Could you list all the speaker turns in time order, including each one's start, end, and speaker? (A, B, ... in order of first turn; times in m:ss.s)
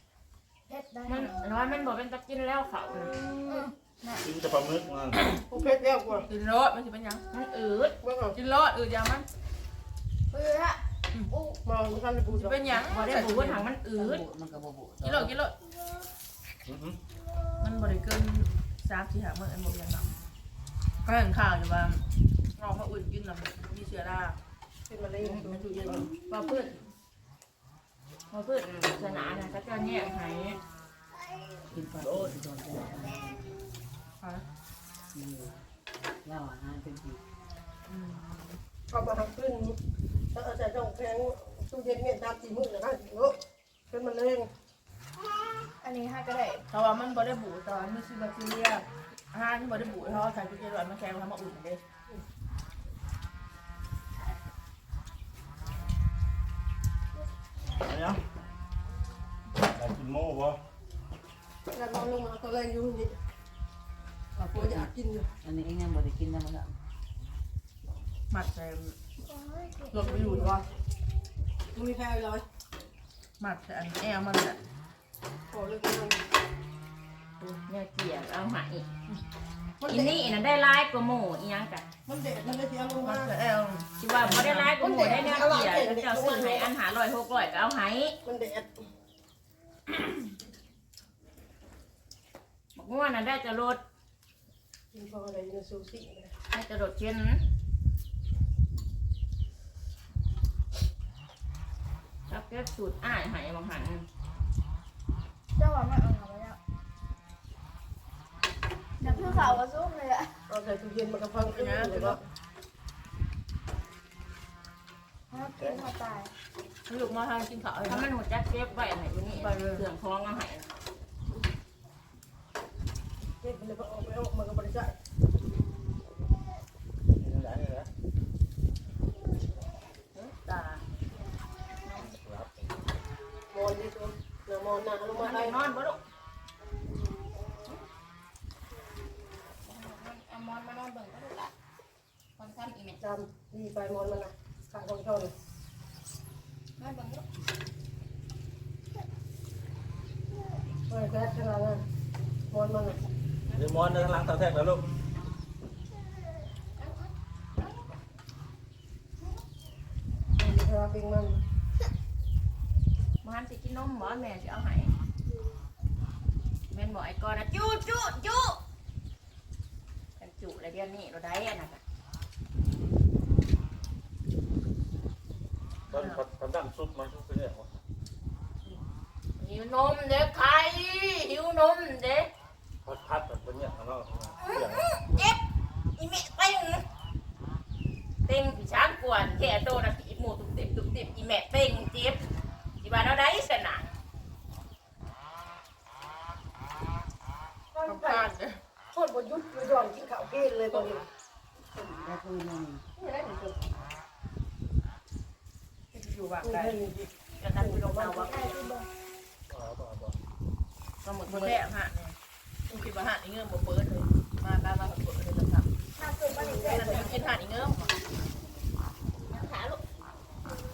0:00.7-0:01.4 A
0:01.0-0:03.2 B
0:03.4-0:04.2 A
0:04.2-0:05.2 C
0:05.5-0:06.3 D
0:06.3-0:07.2 E
0:07.3-0:07.9 B
0:08.0-0:08.4 D
0:08.3-0:09.2 E
0:10.3-0:10.8 A
0:11.3-0:11.6 A
0:11.6-0:12.8 D
0:12.3-0:13.6 E
0:12.8-0:14.2 B
0:13.9-0:15.3 F
0:15.0-0:15.5 E
0:16.6-0:17.0 C
0:17.6-0:20.1 E
0:21.0-0:22.0 E
0:22.6-0:24.4 E
0:24.9-0:25.9 D
0:25.2-0:25.5 B
0:25.4-0:26.1 E
0:25.8-0:26.1 C
0:26.3-0:26.8 B
0:28.3-0:30.6 B
0:29.0-0:29.5 F
0:31.7-0:33.6 F
0:32.0-0:32.3 C
0:35.1-0:35.6 F
0:36.2-0:37.2 F
0:37.9-0:38.6 E
0:38.9-0:39.8 D
0:40.3-0:43.4 D
0:43.9-0:44.5 D
0:45.8-0:46.6 A
0:46.7-0:51.8 E
0:57.7-0:58.2 C
0:59.6-1:00.6 C
1:01.7-1:03.2 D
1:04.4-1:04.9 F
1:04.5-1:05.3 D
1:05.4-1:06.7 F
1:08.3-1:09.0 E
1:09.3-1:10.5 A
1:09.9-1:10.7 E
1:11.7-1:12.4 D
1:13.4-1:14.6 E
1:15.5-1:16.2 D
1:17.6-1:18.9 B
1:19.8-1:20.3 D
1:19.9-1:21.8 B
1:22.0-1:23.3 D
1:23.0-1:24.7 E
1:24.0-1:28.2 B
1:24.7-1:26.7 D
1:28.2-1:28.8 D
1:32.7-1:33.8 B
1:34.9-1:36.3 D
1:36.5-1:37.4 B
1:42.3-1:44.0 B
1:45.6-1:46.6 A
1:49.0-1:50.4 A
1:49.0-1:49.3 D
1:50.5-1:52.2 D
1:51.4-1:52.3 E
1:55.3-1:56.3 A
1:56.9-1:58.1 E
1:57.8-2:00.7 B
1:59.3-1:59.8 E
2:03.4-2:04.9 D
2:07.2-2:07.9 C
2:10.1-2:10.8 B
2:11.8-2:12.1 B
2:12.0-2:12.8 C
2:13.5-2:15.6 D
2:15.1-2:16.0 B
2:19.6-2:21.5 B
2:22.4-2:23.0 B
2:23.0-2:25.3 D
2:26.8-2:27.2 B
2:30.9-2:31.8 D
2:32.5-2:33.0 D
2:33.5-2:34.8 C
2:40.4-2:41.4 D
2:43.2-2:44.9 B
2:46.7-2:48.6 B
2:50.2-2:51.8 B
2:55.9-2:57.7 C
2:59.4-3:02.3 B
3:02.8-3:04.8 C
3:04.4-3:05.4 B
3:06.0-3:06.8 B
3:08.2-3:12.2 B
3:12.8-3:13.9 B
3:17.7-3:18.3 D
3:17.8-3:18.6 E
3:18.9-3:21.0 D
3:21.7-3:22.8 F
3:23.0-3:23.7 D
3:25.9-3:26.8 E
3:26.4-3:28.3 D
3:27.4-3:28.5 B
3:28.2-3:28.9 A
3:29.5-3:30.2 C
3:31.0-3:31.6 B
3:31.3-3:32.1 E
3:32.7-3:35.7 E
3:36.0-3:37.2 A
3:36.3-3:37.1 D
3:36.6-3:37.9 E
3:39.3-3:39.8 B